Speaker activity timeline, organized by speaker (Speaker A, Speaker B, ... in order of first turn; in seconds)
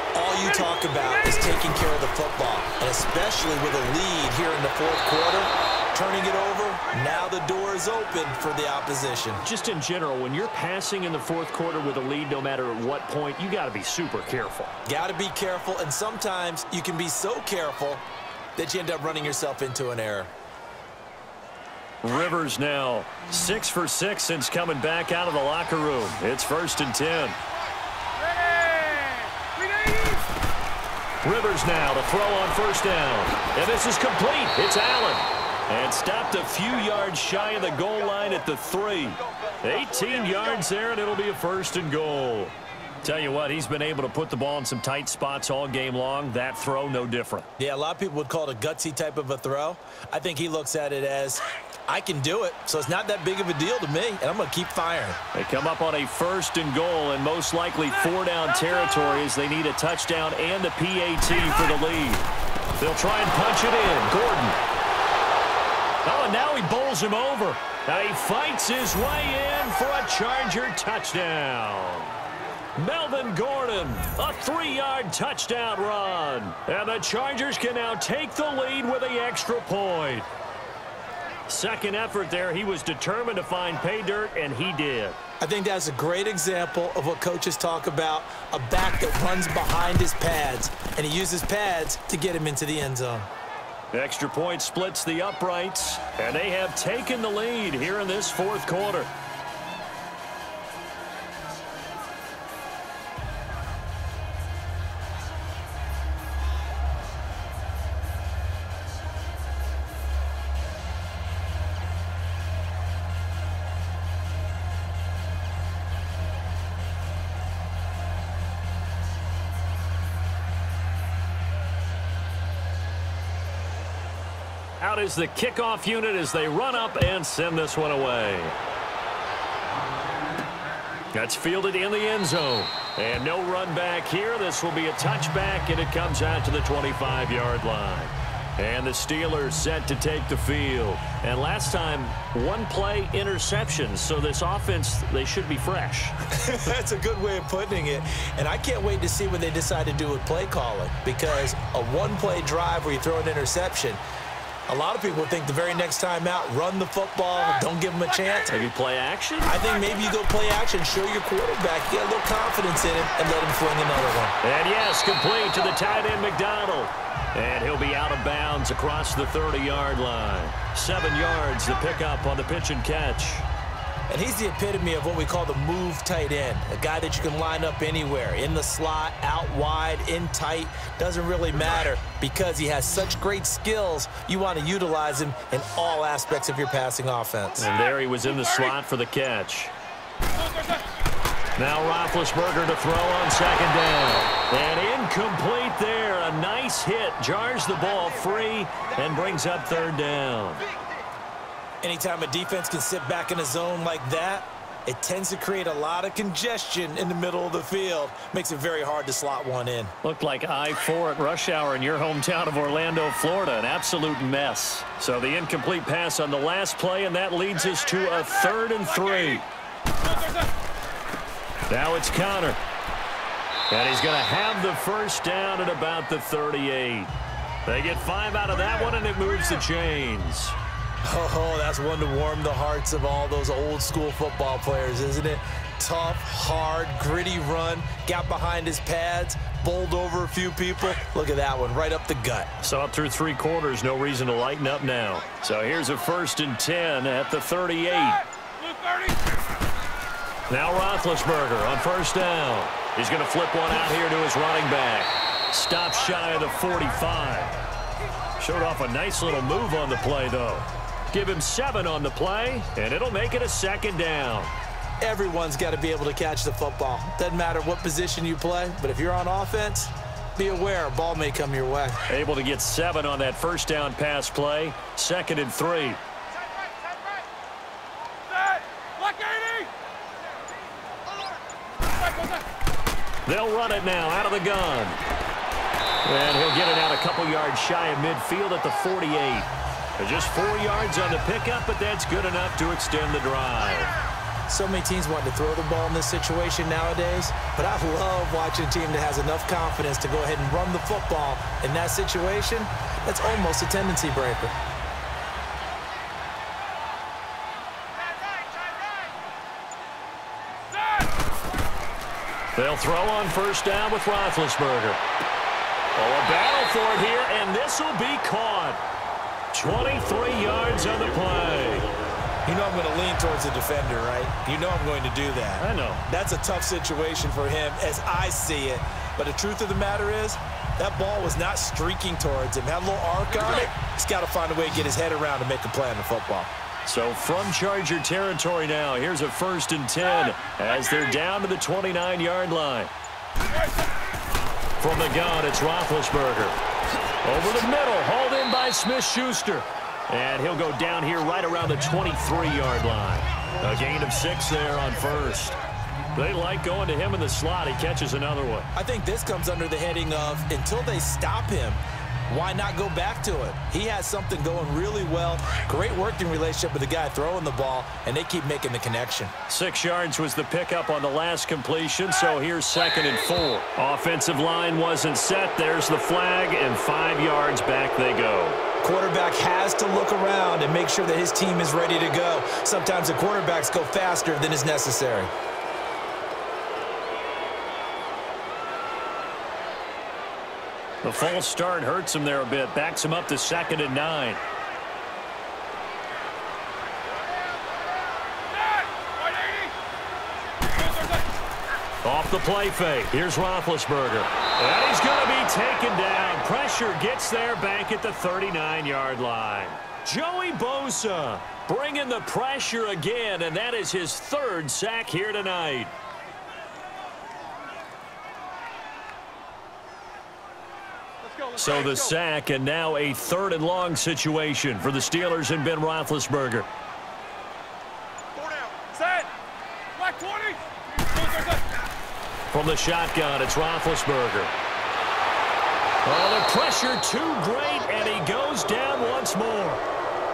Speaker A: 0.1-9.4, 14.8-18.0, 18.6-20.3, 47.6-55.2, 85.4-93.3, 146.3-154.0, 154.7-158.6, 159.4-164.3, 174.1-187.7, 201.8-209.9, 231.1-242.5, 265.0-272.0, 294.5-304.6, 322.4-336.5, 358.7-369.3, 378.8-385.3
Speaker B: 0.4-1.5, 28.2-30.3, 190.3-190.8, 219.0-219.4, 220.0-220.5, 248.6-249.2, 278.2-279.7, 281.9-282.4, 310.7-311.1, 398.5-399.7, 400.6-401.3, 428.9-429.3, 429.9-431.7
Speaker C: 9.4-14.7, 22.0-27.4, 31.2-47.5, 55.3-62.3, 62.8-64.6, 66.0-72.1, 72.8-80.3, 81.5-85.2, 93.9-99.1, 124.8-128.6, 131.1-146.1, 158.5-159.6, 164.4-173.4, 187.6-189.7, 191.6-200.7, 210.0-219.4, 221.7-222.6, 223.7-227.1, 227.7-230.6, 242.6-248.2, 250.5-257.5, 258.4-264.5, 272.1-276.0, 283.3-285.0, 286.1-293.9, 312.6-315.0, 315.9-318.8, 319.5-321.9, 325.6-326.0, 336.9-342.9, 344.8-346.6, 347.2-355.6, 356.1-358.7, 369.5-378.6, 391.0-394.4, 402.0-415.9, 421.6-426.7, 432.5-434.5, 436.1-439.8